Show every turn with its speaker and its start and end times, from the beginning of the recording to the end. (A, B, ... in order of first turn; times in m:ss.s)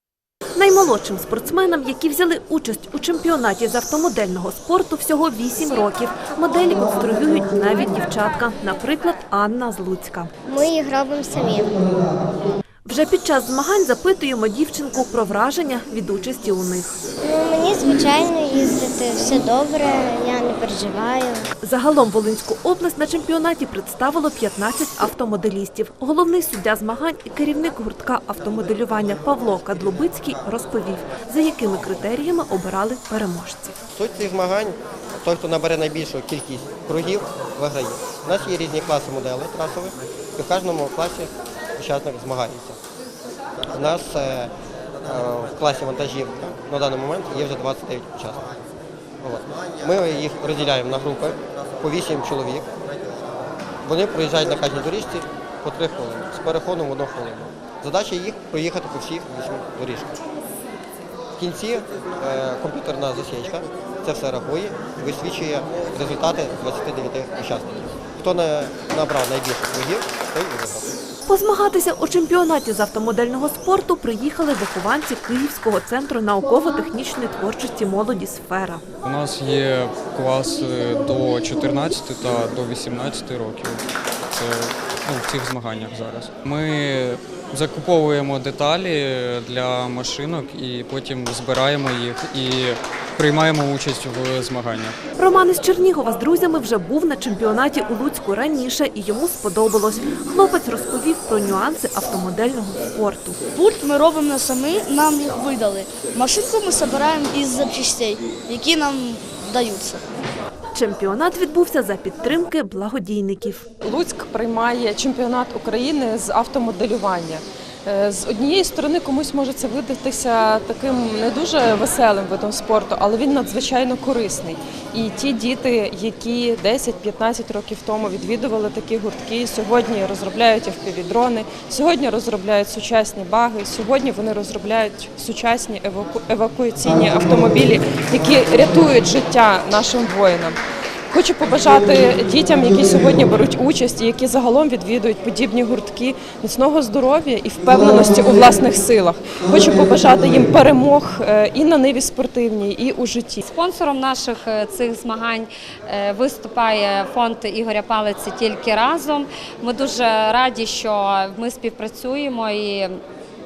0:00.6-0:10.3 A
0:10.5-0:12.2 B
0:12.8-0:17.1 A
0:17.2-0:21.5 B
0:21.6-0:33.8 A
0:33.9-0:42.8 C
0:43.6-0:44.5 C
0:45.0-0:48.6 C
0:49.2-0:52.7 C
0:53.8-1:00.1 C
1:01.4-1:10.9 C
1:11.3-1:18.8 A
1:19.0-1:35.0 D
1:35.2-1:43.4 A
1:43.5-1:50.0 E
1:50.7-1:53.6 A
1:53.8-2:20.6 F
2:21.1-2:33.4 F
2:33.4-2:43.0 G